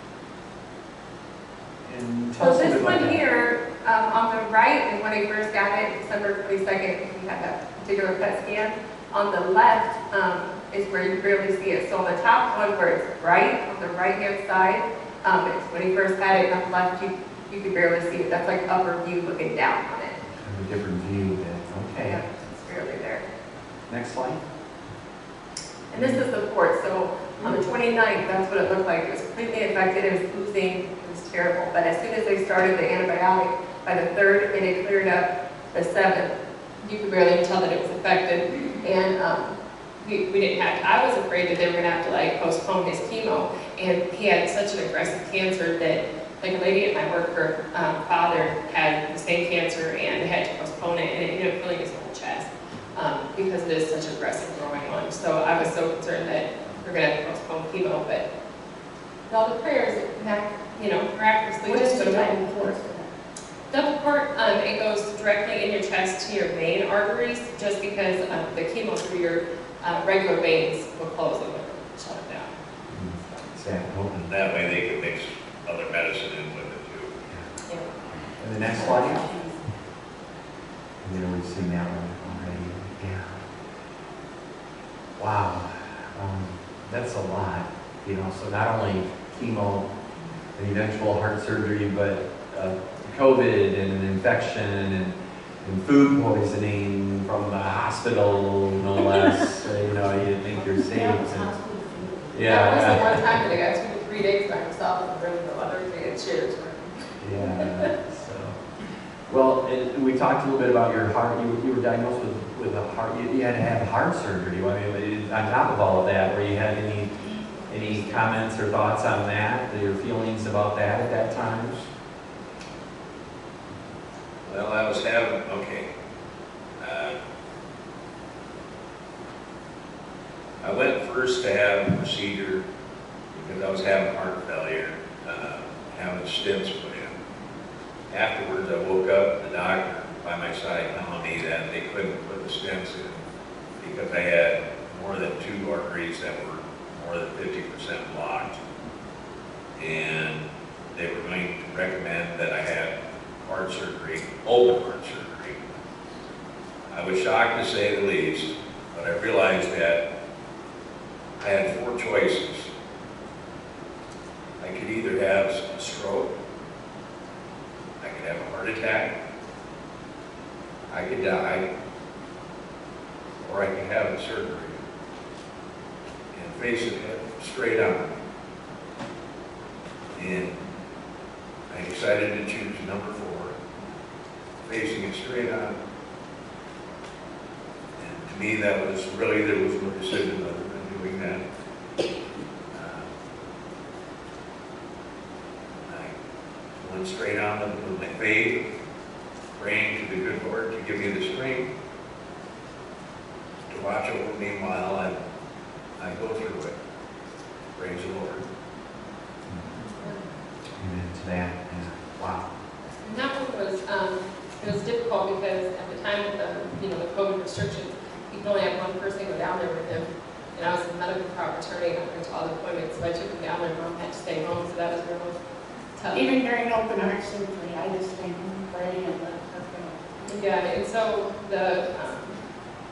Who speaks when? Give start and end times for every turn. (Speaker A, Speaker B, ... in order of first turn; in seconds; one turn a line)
Speaker A: 1.9-3.2
Speaker B: 2.4-20.2
Speaker A: 20.4-22.2
Speaker B: 22.1-23.3
Speaker A: 23.9-24.4
Speaker B: 25.9-58.3
Speaker B: 59.3-62.5
Speaker C: 61.7-63.1
Speaker B: 63.7-72.5
Speaker A: 72.9-74.3
Speaker D: 74.3-77.1
Speaker A: 78.3-79.3
Speaker B: 78.8-79.6
Speaker A: 81.0-83.4
Speaker A: 85.2-89.9
Speaker A: 90.5-101.5
Speaker C: 101.6-102.2
Speaker A: 102.3-103.2
Speaker B: 102.5-107.7
Speaker A: 107.2-108.6
Speaker A: 109.3-117.2
Speaker A: 117.7-121.9
Speaker D: 124.5-125.9
Speaker D: 126.8-127.2
Speaker D: 130.6-132.6
Speaker D: 133.3-137.2
Speaker D: 138.1-143.2
Speaker D: 143.8-148.6
Speaker D: 149.8-155.7
Speaker D: 156.9-160.0
Speaker D: 161.4-162.7
Speaker D: 164.6-166.3
Speaker D: 168.0-169.1
Speaker D: 170.9-171.6
Speaker D: 173.4-174.8
Speaker D: 176.3-178.2
Speaker D: 180.1-180.6
Speaker D: 181.7-183.6
Speaker D: 184.6-185.8
Speaker D: 188.0-191.4
Speaker D: 192.7-193.1
Speaker D: 195.9-196.1
Speaker D: 196.8-198.7
Speaker D: 199.6-201.7
Speaker D: 203.7-205.2
Speaker D: 206.0-206.8
Speaker D: 207.8-208.4
Speaker A: 210.8-212.4
Speaker B: 213.0-225.4
Speaker B: 226.0-226.3
Speaker C: 226.1-230.0
Speaker B: 230.2-232.4